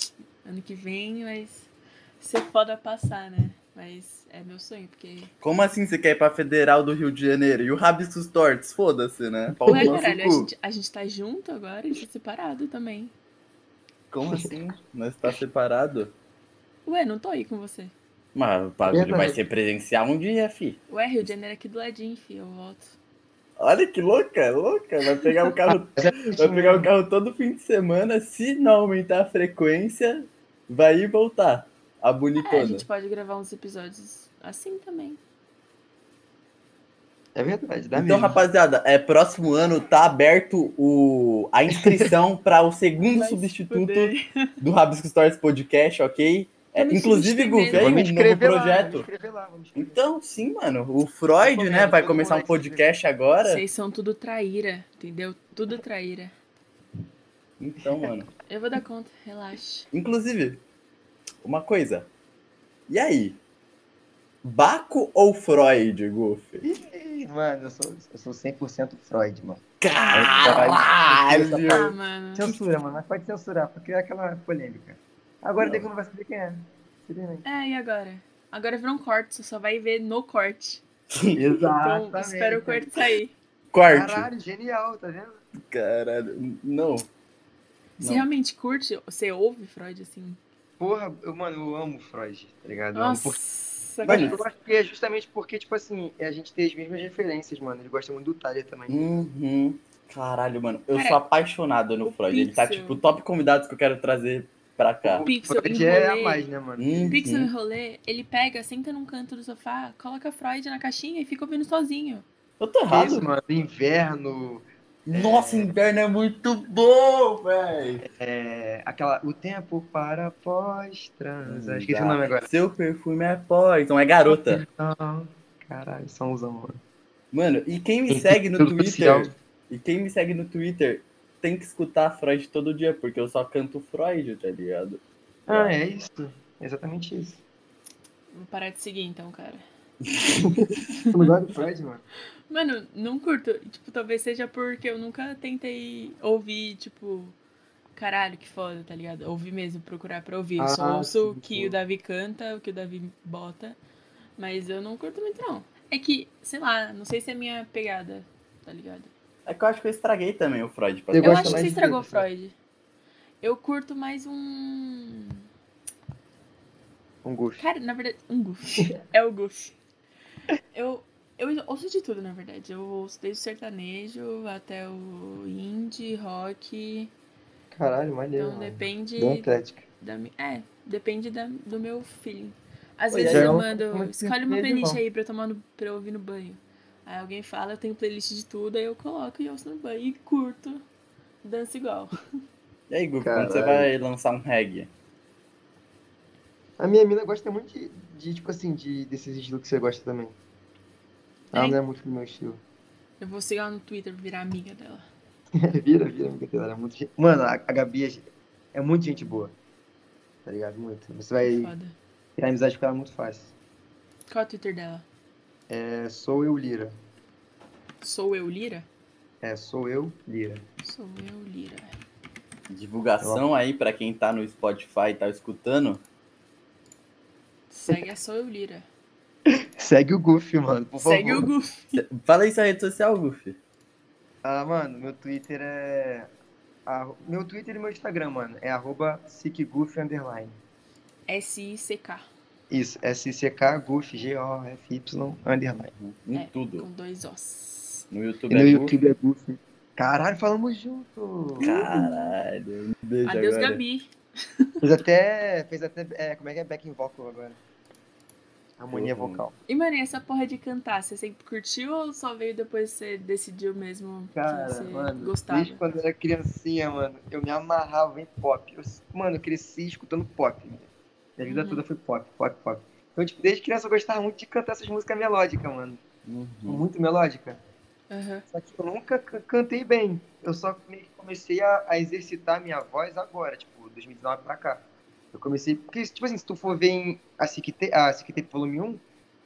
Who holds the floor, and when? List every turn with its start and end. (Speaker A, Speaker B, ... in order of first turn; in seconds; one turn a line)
Speaker A: 0.4-5.3
Speaker B: 5.4-10.5
Speaker C: 9.5-10.0
Speaker A: 9.7-13.1
Speaker B: 14.1-16.1
Speaker A: 16.9-17.9
Speaker B: 18.4-20.8
Speaker C: 18.9-19.4
Speaker A: 20.9-22.9
Speaker B: 23.6-32.9
Speaker C: 26.0-26.9
Speaker A: 32.4-35.2
Speaker C: 37.4-38.4
Speaker B: 38.0-49.1
Speaker C: 41.7-42.1
Speaker A: 43.1-44.5
Speaker A: 46.8-48.0
Speaker C: 47.7-50.0
Speaker B: 49.8-53.6
Speaker C: 51.4-53.0
Speaker A: 53.4-56.3
Speaker B: 57.6-58.3
Speaker A: 58.5-59.9
Speaker B: 59.9-60.6
Speaker B: 61.4-62.1
Speaker B: 62.9-63.4
Speaker B: 64.4-66.6
Speaker C: 66.6-77.5
Speaker B: 69.8-71.9
Speaker A: 71.7-72.5
Speaker B: 75.6-75.9
Speaker A: 77.5-80.8
Speaker C: 81.3-83.0
Speaker A: 81.8-83.3
Speaker B: 83.7-84.3
Speaker C: 83.9-85.4
Speaker B: 85.6-87.1
Speaker B: 88.0-88.2
Speaker A: 88.0-90.4
Speaker C: 90.8-93.4
Speaker A: 93.0-94.4
Speaker C: 94.0-99.2
Speaker B: 94.1-94.4
Speaker B: 98.9-105.3
Speaker A: 100.9-101.2
Speaker A: 102.0-103.0
Speaker C: 105.0-107.2
Speaker A: 105.2-106.4
Speaker B: 106.8-107.5
Speaker A: 107.1-112.3
Speaker B: 112.6-113.3
Speaker C: 112.9-115.7
Speaker B: 115.1-118.0
Speaker C: 118.0-122.5
Speaker B: 121.5-124.6
Speaker C: 124.3-126.8
Speaker B: 127.3-135.8
Speaker C: 128.1-129.3
Speaker C: 135.5-137.4
Speaker A: 138.3-139.7
Speaker C: 140.3-142.0
Speaker A: 140.9-141.3
Speaker A: 142.5-147.4
Speaker A: 147.9-153.8
Speaker C: 150.6-151.8
Speaker A: 154.4-159.1
Speaker B: 159.5-161.8
Speaker C: 161.1-162.3
Speaker A: 161.2-162.6
Speaker A: 163.4-165.4
Speaker C: 167.2-167.7
Speaker A: 167.6-169.8
Speaker A: 170.7-177.1
Speaker C: 177.7-179.8
Speaker A: 178.4-190.8
Speaker C: 183.1-185.0
Speaker B: 183.2-183.6
Speaker A: 191.4-192.1
Speaker B: 192.9-194.9
Speaker C: 193.2-193.9
Speaker C: 196.8-200.4
Speaker C: 201.5-202.6
Speaker A: 201.5-201.8
Speaker A: 203.2-205.1
Speaker C: 205.6-209.5
Speaker C: 210.4-211.7
Speaker A: 211.4-212.0
Speaker C: 212.4-213.5
Speaker A: 214.3-215.1
Speaker C: 215.7-216.9
Speaker A: 218.0-218.9
Speaker C: 219.4-220.7
Speaker A: 220.8-221.9
Speaker B: 222.7-226.0
Speaker A: 227.7-228.9
Speaker C: 229.5-231.5
Speaker A: 231.0-232.0
Speaker B: 231.9-233.6
Speaker C: 234.4-236.3
Speaker C: 236.9-240.6
Speaker A: 241.3-242.2
Speaker C: 242.7-245.9
Speaker B: 245.9-246.9
Speaker A: 246.3-248.1
Speaker B: 248.1-248.9
Speaker C: 248.5-251.7
Speaker A: 251.6-252.3
Speaker B: 251.6-253.8
Speaker A: 253.2-254.1
Speaker C: 254.8-257.6
Speaker C: 258.8-259.6
Speaker B: 258.9-259.4
Speaker A: 259.7-265.8
Speaker C: 264.4-276.0
Speaker A: 271.5-271.8
Speaker B: 276.3-276.8
Speaker C: 276.7-277.6
Speaker A: 278.1-278.5
Speaker C: 278.5-289.0